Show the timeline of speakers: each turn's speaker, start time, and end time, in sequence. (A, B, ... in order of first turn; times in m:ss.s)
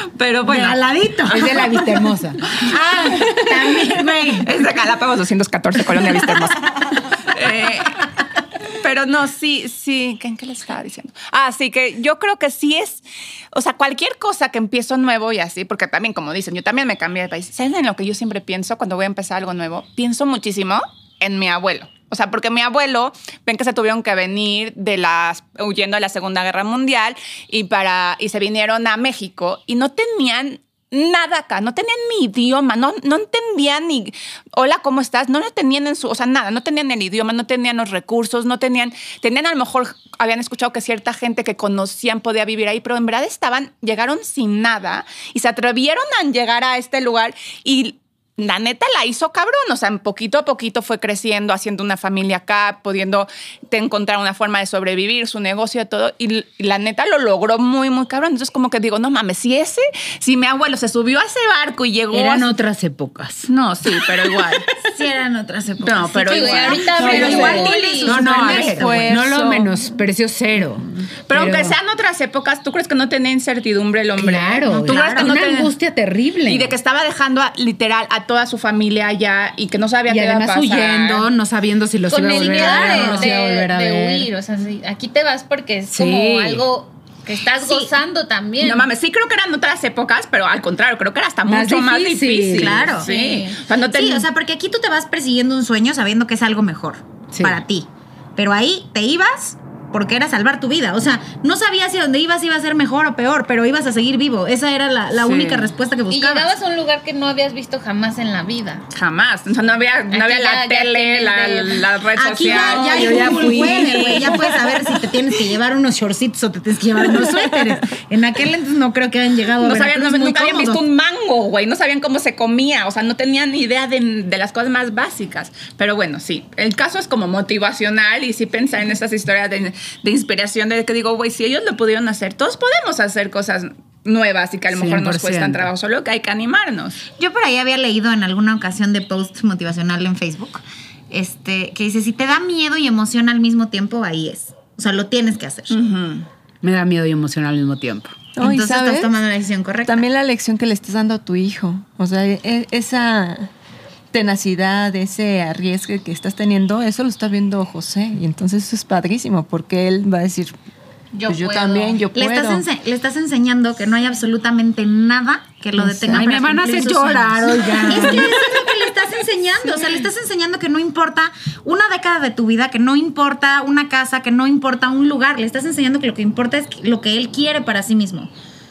0:00.1-0:00.8 A
0:00.4-0:01.8 B
0:01.3-0:02.4 C
0:02.6-0:04.5 B
0:03.2-0:03.5 A
0:04.4-0:08.1 A
0:08.8-1:02.6 A
1:02.1-1:03.5 C
1:03.5-1:04.7 A
1:04.8-1:09.2 B
1:05.8-1:09.7 A
1:06.3-1:08.3 D
1:06.9-1:11.8 C
1:11.3-1:15.7 A
1:14.2-1:16.7 C
1:14.7-1:15.7 B
1:16.5-1:21.3 A
1:20.1-1:24.3 C
1:22.1-1:28.9 D
1:22.4-1:23.3 B
1:25.9-1:26.6 C
1:27.6-1:27.9 B
1:28.6-1:34.3 A
1:31.5-1:32.9 C
1:32.5-1:33.1 B
1:33.0-1:33.6 D
1:33.9-1:46.5 B
1:37.3-1:37.6 C
1:45.2-1:45.7 A
1:46.1-1:48.9 D
1:48.9-1:54.4 A
1:50.1-1:51.8 D
1:52.2-2:00.8 B
1:52.4-1:54.6 C
1:59.6-2:17.0 A
2:14.7-2:15.7 C
2:17.2-2:25.8 B
2:25.7-2:26.3 A
2:26.6-2:28.2 C
2:28.4-2:29.1 E
2:28.4-2:30.1 B
2:29.9-2:33.5 E
2:34.1-2:40.5 E
2:41.1-2:42.0 D
2:41.3-2:42.6 E
2:42.1-2:58.3 B
2:45.8-2:48.6 C